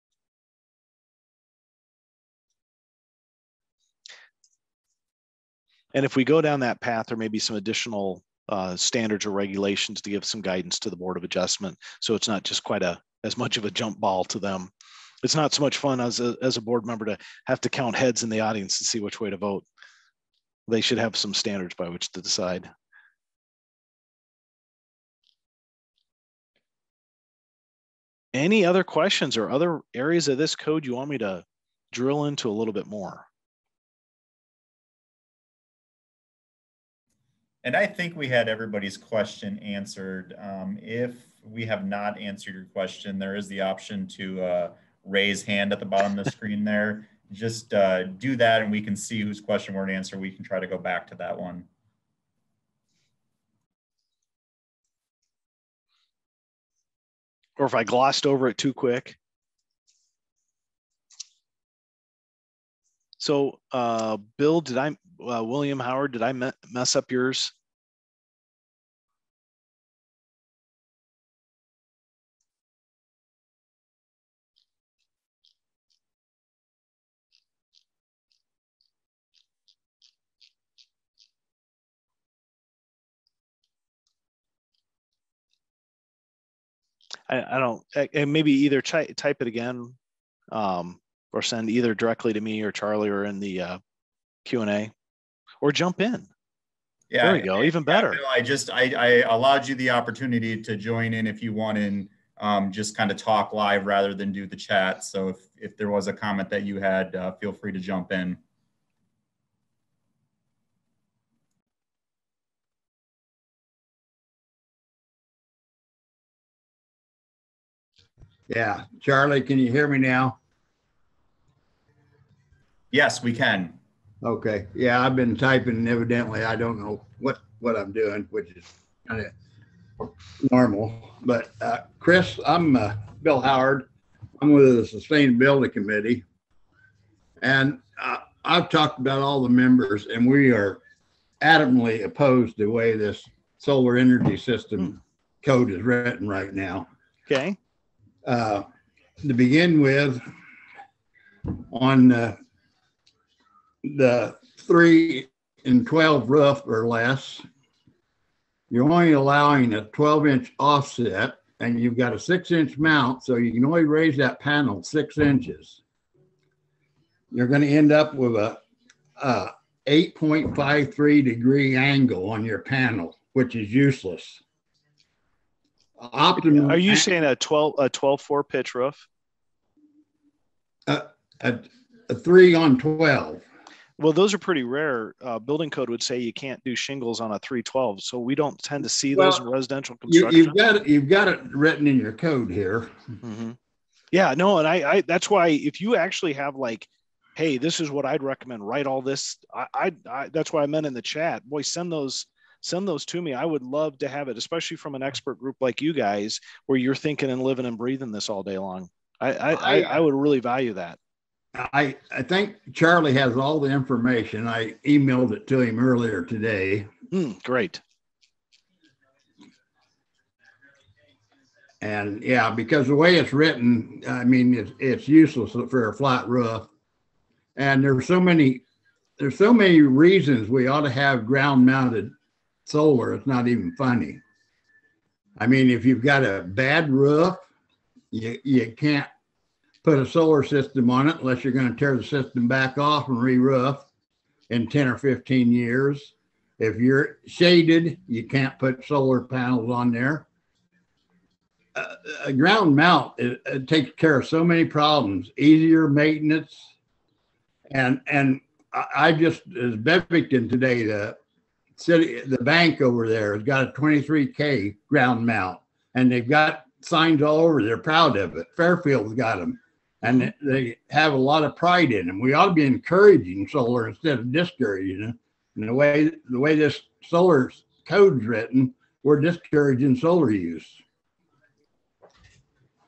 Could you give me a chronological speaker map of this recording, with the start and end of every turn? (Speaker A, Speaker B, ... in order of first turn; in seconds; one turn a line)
Speaker A: 5.9-14.7
Speaker A: 15.2-19.6
Speaker A: 20.7-22.7
Speaker A: 28.3-33.3
Speaker B: 37.6-51.7
Speaker A: 57.6-59.2
Speaker A: 63.2-67.5
Speaker A: 87.3-90.0
Speaker A: 90.5-93.8
Speaker A: 94.5-94.9
Speaker A: 95.6-96.3
Speaker B: 97.1-108.4
Speaker A: 97.2-98.2
Speaker C: 118.5-120.4
Speaker B: 122.9-123.8
Speaker C: 124.2-129.3
Speaker C: 130.0-133.9
Speaker C: 134.4-136.2
Speaker C: 137.4-140.8
Speaker C: 141.4-146.9
Speaker A: 147.3-147.6
Speaker C: 148.2-148.7
Speaker C: 149.2-150.2
Speaker C: 151.5-152.4
Speaker C: 153.8-157.4
Speaker C: 158.7-165.8
Speaker C: 167.3-168.6
Speaker C: 169.2-174.4
Speaker C: 176.0-177.1
Speaker A: 176.4-179.0
Speaker C: 180.9-183.4
Speaker A: 184.0-190.6
Speaker C: 189.1-189.4
Speaker C: 190.1-193.0
Speaker A: 193.2-193.6
Speaker A: 194.1-211.0
Speaker C: 211.6-216.9
Speaker A: 217.1-217.8
Speaker C: 221.8-226.7
Speaker C: 227.6-228.6
Speaker C: 229.2-232.1
Speaker C: 232.7-234.2
Speaker C: 235.4-237.4
Speaker C: 238.1-239.1
Speaker C: 239.8-243.9
Speaker C: 244.5-250.3
Speaker C: 251.8-256.7
Speaker C: 257.7-261.2
Speaker C: 261.8-280.8